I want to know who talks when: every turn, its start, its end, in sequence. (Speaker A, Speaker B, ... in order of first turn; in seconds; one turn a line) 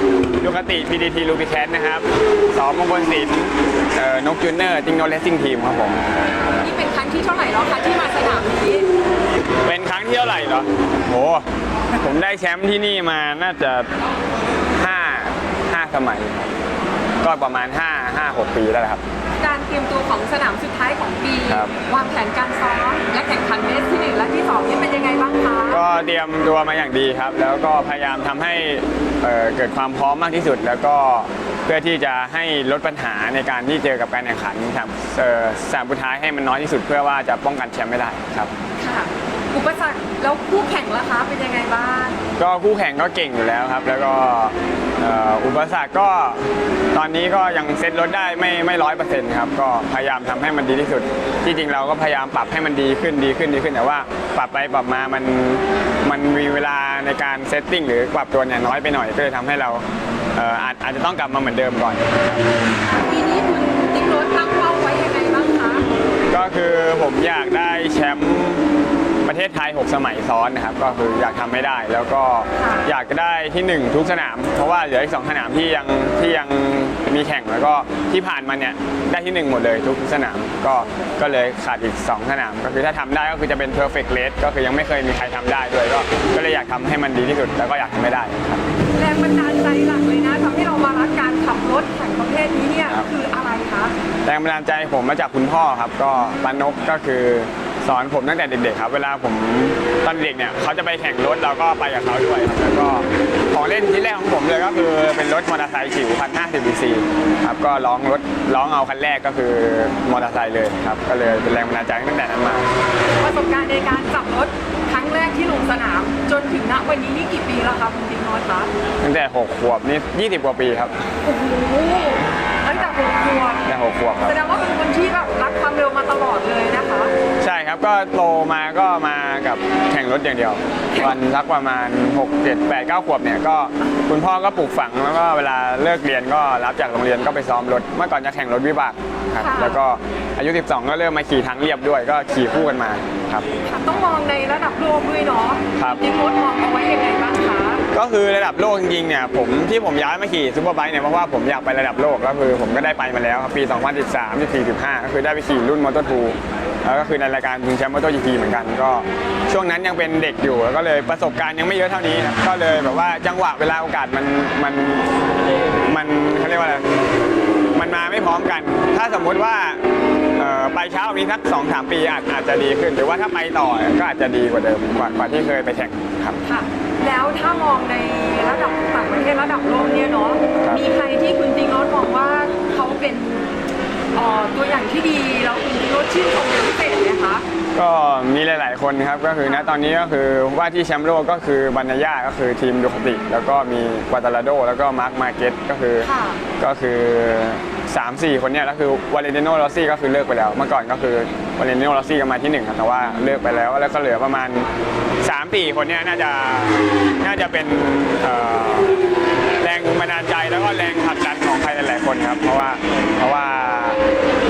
Speaker A: 0.4-6.0
Speaker B: 6.5-8.9
Speaker A: 9.6-13.9
Speaker A: 14.7-16.5
Speaker A: 17.2-19.0
Speaker B: 19.4-25.8
Speaker A: 21.5-21.7
Speaker A: 25.7-38.5
Speaker B: 38.8-42.2
Speaker A: 42.4-59.8
Speaker A: 60.3-62.5
Speaker B: 62.8-65.8
Speaker A: 66.3-68.7
Speaker A: 69.2-88.6
Speaker B: 72.6-72.9
Speaker B: 89.0-93.9
Speaker A: 94.2-112.7
Speaker B: 96.1-96.6
Speaker B: 113.2-118.7
Speaker A: 119.0-121.0
Speaker B: 121.2-123.6
Speaker A: 123.6-124.3
Speaker B: 124.2-127.1
Speaker A: 127.4-143.5
Speaker B: 130.9-131.2
Speaker B: 139.4-139.8
Speaker B: 143.6-147.8
Speaker A: 145.8-146.0
Speaker A: 147.9-165.1
Speaker A: 165.7-166.8
Speaker A: 167.7-169.8
Speaker A: 170.3-176.4
Speaker B: 176.4-183.5
Speaker B: 184.1-187.4
Speaker A: 187.7-196.1
Speaker B: 189.4-189.8
Speaker B: 196.0-196.4
Speaker A: 196.6-204.7
Speaker B: 203.1-203.5
Speaker A: 205.2-209.0
Speaker A: 209.6-214.0